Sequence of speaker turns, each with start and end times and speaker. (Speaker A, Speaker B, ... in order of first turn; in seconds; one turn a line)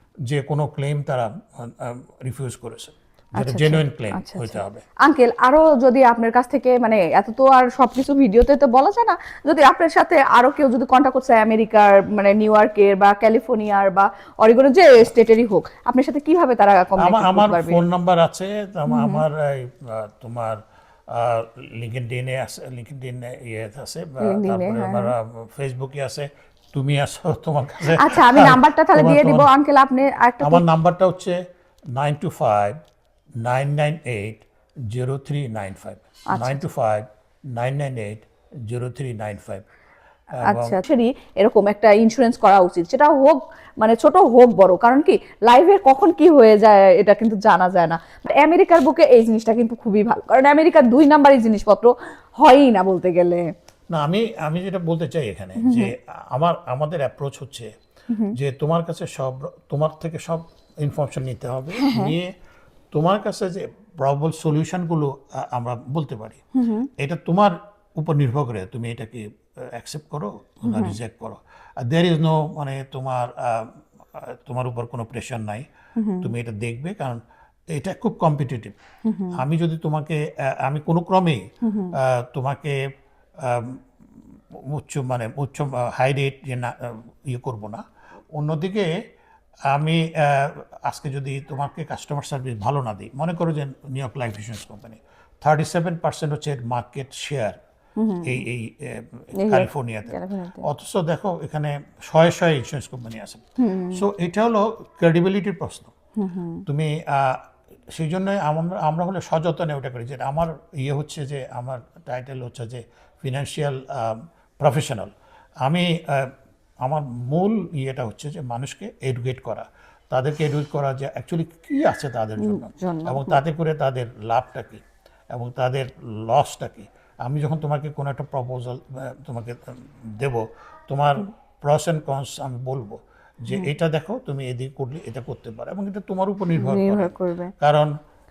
Speaker A: 0.3-4.8
Speaker B: 3.4-17.8
Speaker A: 17.0-29.5
Speaker B: 18.9-19.2
Speaker B: 24.2-25.1
Speaker B: 27.9-30.6
Speaker A: 30.4-31.4
Speaker A: 31.9-32.8
Speaker A: 33.4-39.6
Speaker B: 36.3-36.6
Speaker A: 40.4-40.8
Speaker B: 40.4-53.5
Speaker A: 53.9-57.7
Speaker B: 55.6-55.9
Speaker A: 58.3-62.3
Speaker B: 61.8-62.1
Speaker A: 62.9-66.4
Speaker B: 66.6-66.9
Speaker A: 67.0-75.7
Speaker B: 70.7-71.0
Speaker B: 76.0-76.3
Speaker A: 76.2-77.2
Speaker A: 77.7-78.8
Speaker B: 79.0-79.4
Speaker A: 79.3-81.4
Speaker B: 81.6-82.0
Speaker A: 81.9-82.8
Speaker A: 83.4-87.8
Speaker A: 88.3-88.9
Speaker A: 89.7-97.6
Speaker B: 98.0-98.3
Speaker A: 98.2-103.4
Speaker B: 99.4-100.6
Speaker B: 103.6-104.0
Speaker A: 103.9-105.9
Speaker B: 106.2-106.6
Speaker A: 106.7-115.1
Speaker A: 115.6-116.3
Speaker A: 116.8-137.9
Speaker B: 122.4-123.4
Speaker B: 136.6-137.5